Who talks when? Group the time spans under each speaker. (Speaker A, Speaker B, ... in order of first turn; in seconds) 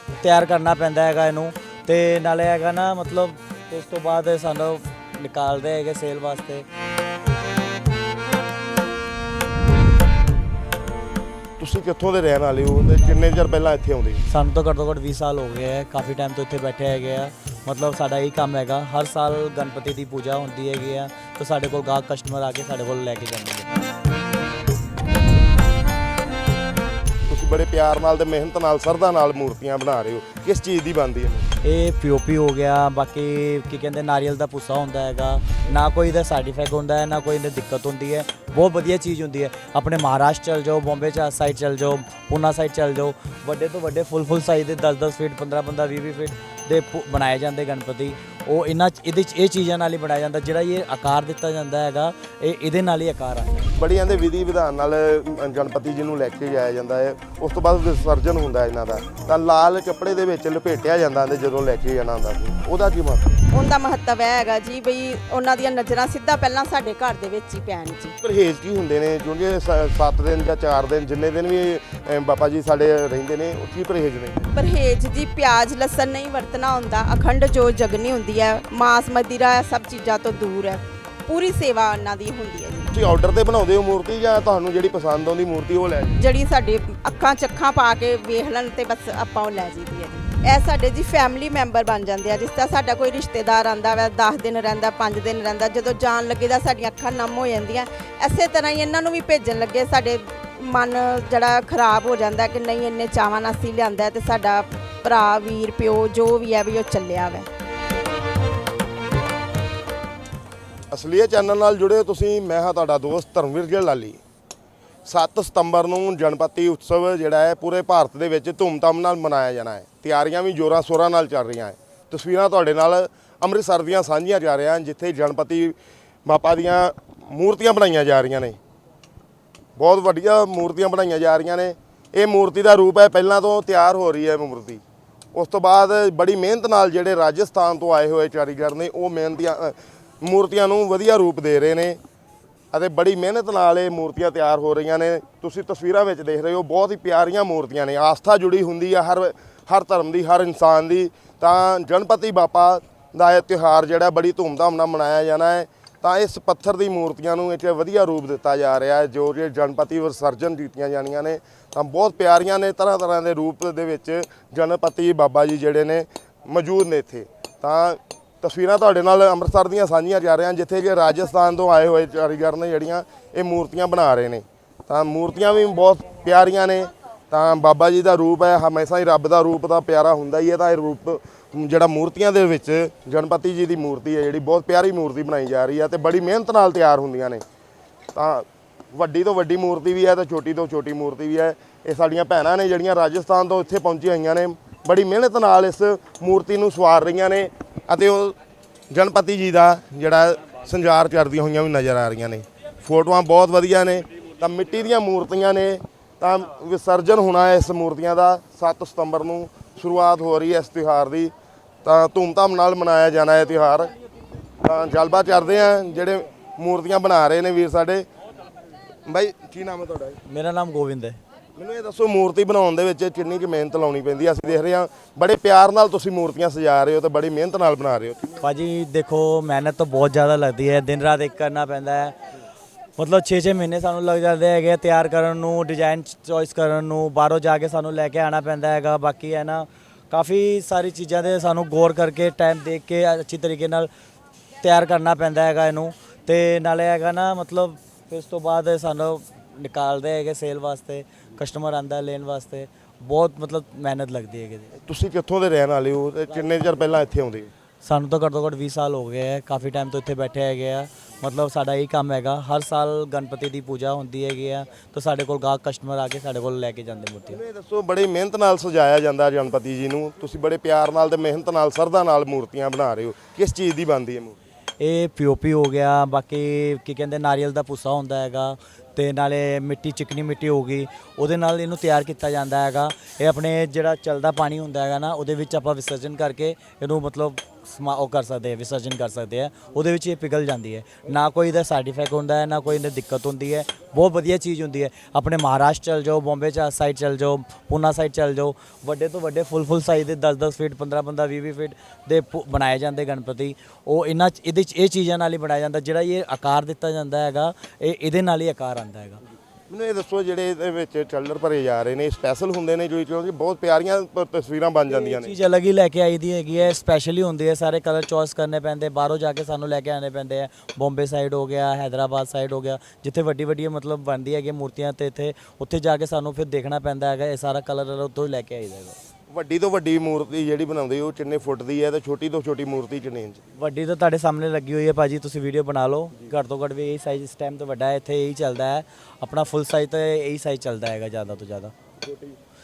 Speaker A: 0.2-6.7, 14.3-23.7, 31.6-53.8, 220.2-221.2, 228.4-232.2, 233.0-243.9, 244.6-254.7, 256.3-256.7, 257.8-267.4, 274.8-309.2, 314.9-329.0, 333.6-341.7
Speaker B: 11.6-14.2, 27.3-31.5, 53.8-63.3, 68.2-74.5, 82.9-86.2, 110.9-114.2, 115.0-128.6, 129.8-134.8, 135.3-142.0, 142.7-187.4, 188.1-198.4, 198.9-211.3, 211.8-213.9, 214.6-218.1, 219.1-220.2, 221.6-228.4, 254.9-257.5, 267.3-274.4, 309.7-315.3, 329.3-333.4, 342.1-342.4
Speaker C: 63.5-68.1, 74.5-82.9, 86.2-107.5